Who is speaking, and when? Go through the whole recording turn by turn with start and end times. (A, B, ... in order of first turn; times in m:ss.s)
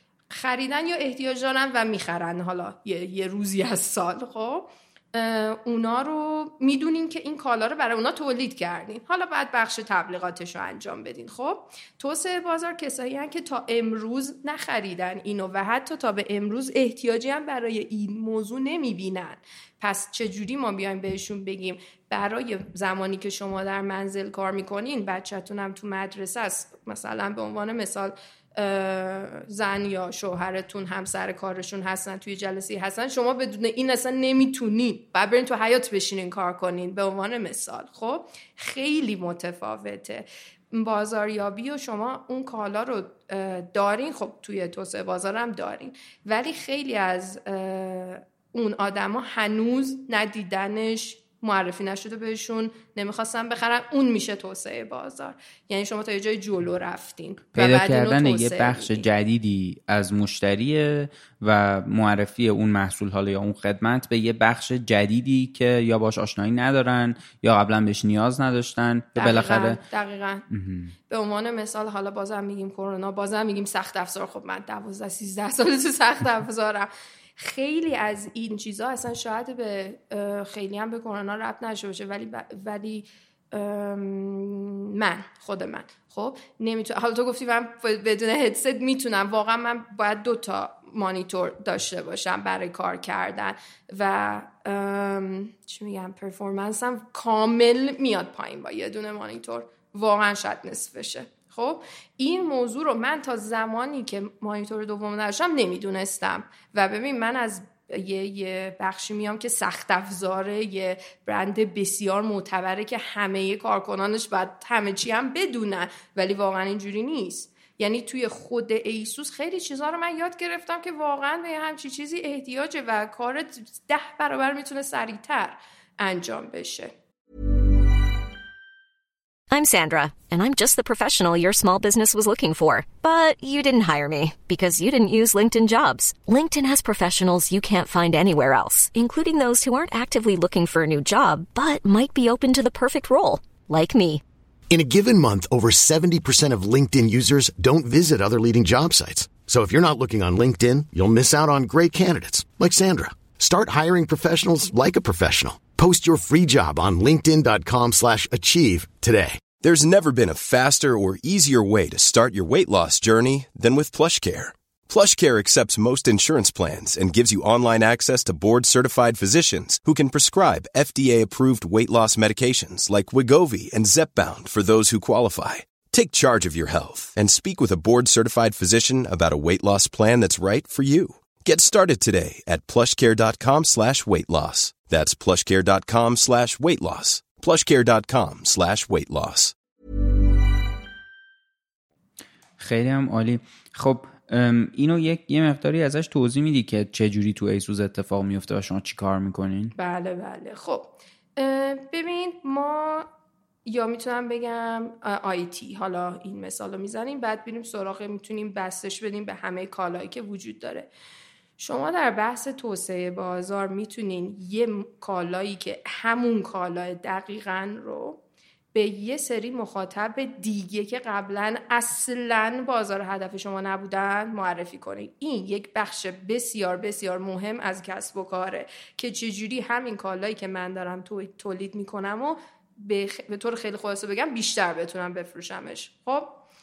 0:00.3-0:59.1 A
0:57.6-1:09.8 B
1:09.2-1:10.5 A
1:10.5-1:10.9 B
1:11.1-2:06.9 A
2:09.5-2:24.2 C
2:24.7-2:39.4 D
2:39.6-3:09.5 E
3:12.6-3:19.7 B
3:19.8-3:23.1 A
3:23.7-3:30.9 A
3:31.6-3:38.2 A
3:38.7-3:56.4 A